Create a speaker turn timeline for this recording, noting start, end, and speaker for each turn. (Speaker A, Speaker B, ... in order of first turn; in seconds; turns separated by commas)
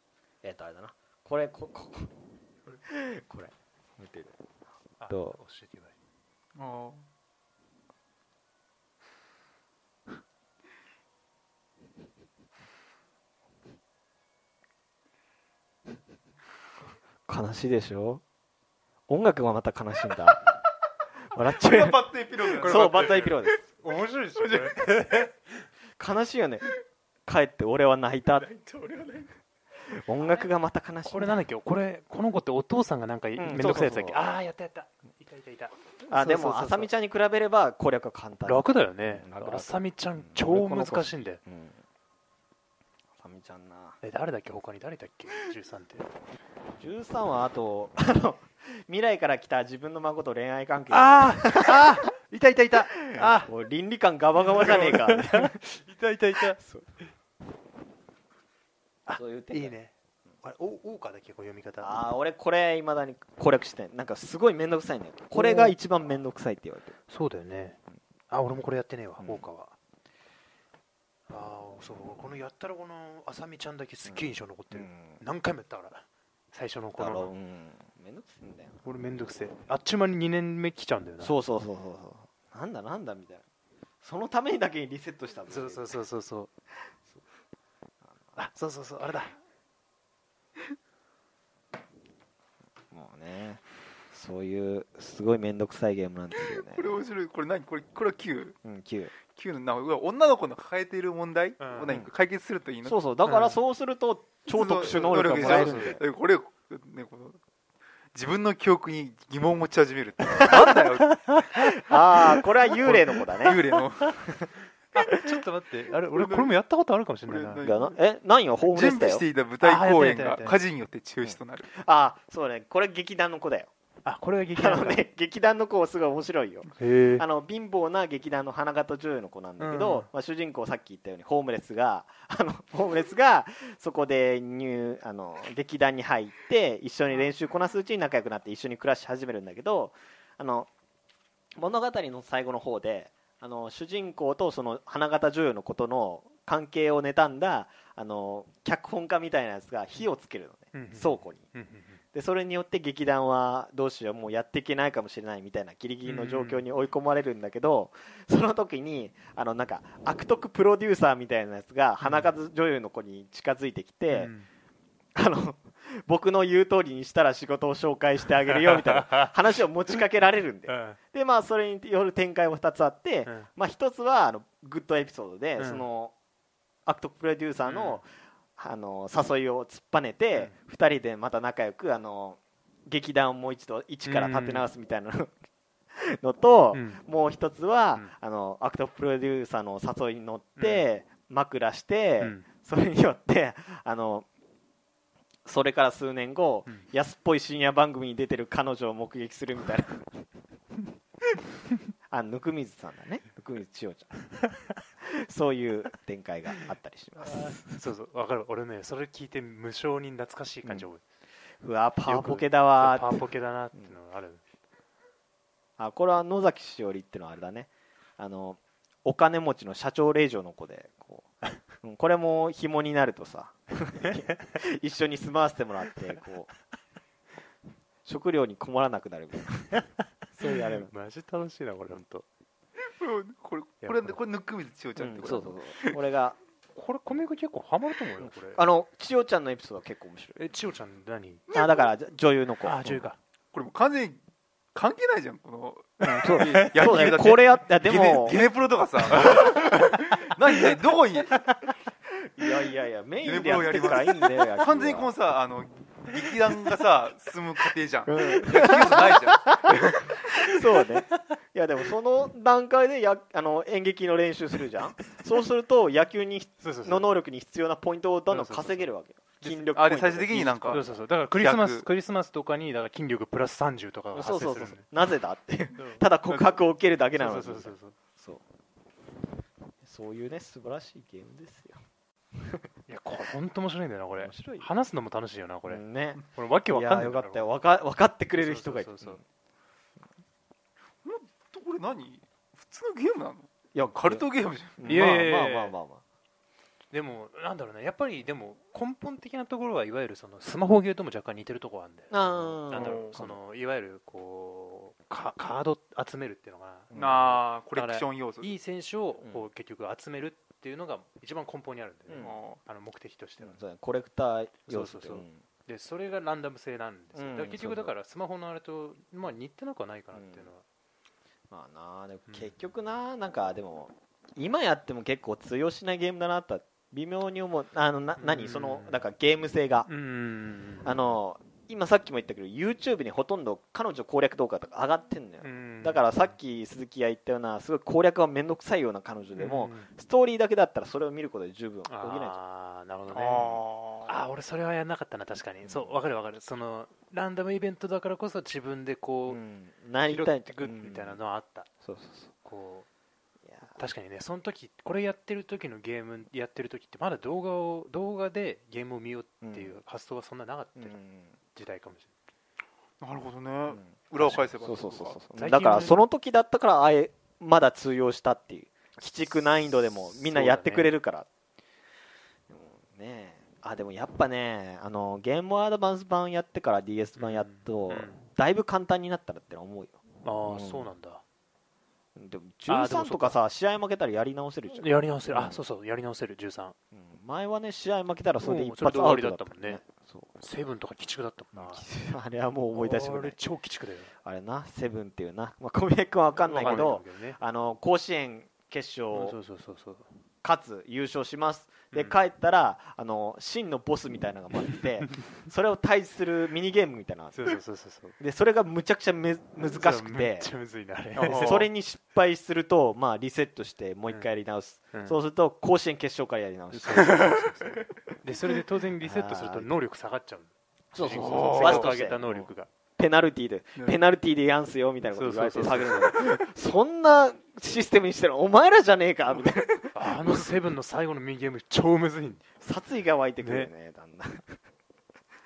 Speaker A: 0.4-2.1, Speaker A: 2.7-4.4, Speaker B: 5.0-5.9, Speaker A: 5.1-5.4, Speaker C: 6.6-7.0, Speaker A: 17.3-18.2, Speaker A: 19.1-20.5, Speaker A: 21.3-22.0, Speaker C: 21.5-23.4, Speaker A: 22.6-23.6, Speaker B: 23.8-25.4, Speaker C: 24.4-24.8, Speaker A: 26.0-26.7, Speaker A: 27.3-28.5, Speaker C: 28.4-29.3, Speaker A: 29.9-31.4, Speaker B: 31.1-36.9, Speaker A: 33.4-34.2, Speaker A: 36.1-41.8, Speaker B: 38.5-41.4, Speaker A: 43.2-44.0, Speaker B: 44.0-46.1, Speaker A: 46.8-52.0, Speaker B: 50.9-53.5, Speaker A: 53.1-55.7, Speaker B: 54.5-56.6, Speaker A: 56.6-56.9, Speaker B: 59.1-59.9, Speaker A: 59.1-59.8, Speaker B: 60.4-62.0, Speaker A: 61.8-67.0, Speaker B: 65.3-65.8, Speaker B: 67.1-67.8, Speaker B: 68.3-69.7, Speaker A: 69.2-69.5, Speaker B: 71.3-77.3, Speaker A: 74.1-75.2, Speaker A: 77.0-78.8, Speaker B: 78.8-81.3, Speaker A: 81.2-83.4, Speaker A: 84.0-86.0, Speaker B: 85.5-86.5, Speaker B: 88.4-89.3, Speaker A: 92.9-97.0, Speaker C: 96.5-98.6, Speaker A: 98.6-99.1, Speaker C: 99.3-103.0, Speaker B: 101.6-101.9, Speaker A: 102.8-106.0, Speaker B: 103.2-103.6, Speaker C: 104.5-107.4, Speaker B: 104.9-106.0, Speaker C: 108.1-111.3, Speaker A: 111.6-113.6, Speaker C: 112.8-114.2, Speaker B: 113.4-113.7, Speaker B: 114.9-117.7, Speaker C: 116.1-116.5, Speaker C: 117.2-118.0, Speaker A: 117.6-119.2, Speaker C: 118.7-121.7, Speaker B: 119.6-120.6, Speaker A: 121.2-123.7, Speaker B: 124.0-125.0, Speaker A: 124.5-140.7, Speaker B: 126.8-127.2, Speaker B: 129.6-130.1, Speaker A: 141.6-151.5, Speaker B: 150.7-152.0, Speaker A: 152.1-164.3, Speaker B: 156.0-156.7, Speaker B: 162.0-162.3, Speaker B: 164.1-164.5, Speaker A: 165.2-176.1, Speaker B: 168.5-169.3, Speaker B: 170.7-171.0, Speaker B: 175.6-175.9, Speaker A: 176.9-185.3, Speaker B: 177.6-178.0, Speaker B: 184.1-184.7, Speaker A: 186.0-194.3, Speaker B: 186.7-187.0, Speaker B: 190.6-190.8, Speaker B: 192.2-192.4, Speaker A: 195.5-200.2, Speaker A: 202.1-204.3, Speaker A: 205.2-207.7, Speaker B: 207.2-211.0, Speaker A: 211.6-213.2, Speaker B: 212.1-214.4, Speaker A: 215.8-221.3, Speaker A: 221.8-226.5, Speaker A: 228.1-230.9, Speaker B: 230.5-232.3, Speaker C: 233.0-235.9, Speaker B: 233.8-234.2, Speaker A: 235.0-236.4, Speaker B: 236.8-238.6, Speaker A: 238.2-240.4, Speaker B: 240.4-241.5, Speaker C: 241.5-241.9, Speaker A: 241.5-243.0, Speaker B: 242.6-243.2, Speaker C: 243.5-244.2, Speaker C: 244.7-251.4, Speaker A: 246.0-248.4, Speaker B: 246.1-247.2, Speaker B: 249.1-249.6, Speaker B: 250.1-250.7, Speaker A: 252.3-255.1, Speaker C: 253.2-260.0, Speaker A: 258.1-270.9, Speaker B: 266.6-267.1, Speaker B: 268.3-268.9, Speaker B: 269.4-274.9, Speaker C: 269.8-271.9, Speaker A: 274.1-278.4, Speaker B: 275.8-276.0, Speaker B: 277.1-278.0, Speaker A: 279.8-281.8, Speaker B: 282.9-287.5, Speaker A: 284.2-284.7, Speaker A: 285.7-289.2, Speaker B: 288.3-289.2, Speaker C: 291.0-295.0, Speaker A: 293.7-294.2, Speaker A: 294.8-296.0, Speaker B: 294.9-295.7, Speaker B: 296.9-313.6, Speaker A: 302.1-303.2, Speaker C: 302.7-303.4, Speaker A: 306.9-307.3, Speaker C: 306.9-308.5, Speaker A: 312.1-312.3, Speaker C: 312.2-312.6, Speaker A: 313.4-315.4, Speaker B: 314.7-320.6, Speaker A: 317.1-317.9, Speaker A: 320.1-320.5, Speaker A: 321.5-329.9, Speaker B: 322.3-322.5, Speaker B: 328.2-329.0, Speaker B: 329.9-331.1, Speaker A: 330.8-342.4, Speaker B: 335.4-336.3, Speaker B: 339.4-339.9, Speaker B: 341.9-343.5, Speaker C: 343.1-344.2, Speaker A: 343.3-343.6, Speaker B: 344.1-349.4, Speaker A: 345.6-346.0, Speaker A: 349.3-351.2, Speaker B: 350.0-351.7, Speaker A: 351.8-352.3, Speaker B: 352.4-352.9, Speaker A: 353.5-353.8, Speaker B: 353.8-361.0, Speaker A: 359.4-359.8, Speaker A: 360.8-361.3, Speaker B: 361.5-362.1, Speaker C: 363.0-365.2, Speaker A: 363.7-371.3, Speaker B: 365.4-366.0, Speaker B: 370.1-370.9, Speaker A: 372.5-380.0, Speaker B: 377.2-378.2, Speaker B: 380.2-381.2, Speaker A: 380.5-380.9, Speaker A: 382.2-385.6, Speaker B: 382.7-383.4, Speaker B: 384.7-386.8, Speaker A: 386.9-390.3, Speaker B: 388.4-389.8, Speaker B: 390.4-391.9, Speaker A: 391.5-393.4, Speaker B: 392.7-394.1, Speaker A: 394.2-399.4, Speaker B: 396.4-397.4, Speaker B: 399.1-400.1, Speaker A: 400.4-407.5, Speaker B: 401.9-402.2, Speaker B: 407.3-408.2, Speaker A: 408.2-410.5, Speaker B: 409.6-411.7, Speaker C: 411.2-411.7, Speaker A: 411.4-417.6, Speaker B: 414.9-415.2, Speaker B: 416.7-422.7, Speaker C: 417.0-417.4, Speaker A: 419.0-419.7, Speaker A: 420.9-430.4, Speaker C: 421.2-421.9, Speaker B: 425.1-426.4, Speaker B: 429.9-432.5, Speaker A: 432.6-434.6, Speaker B: 433.4-433.7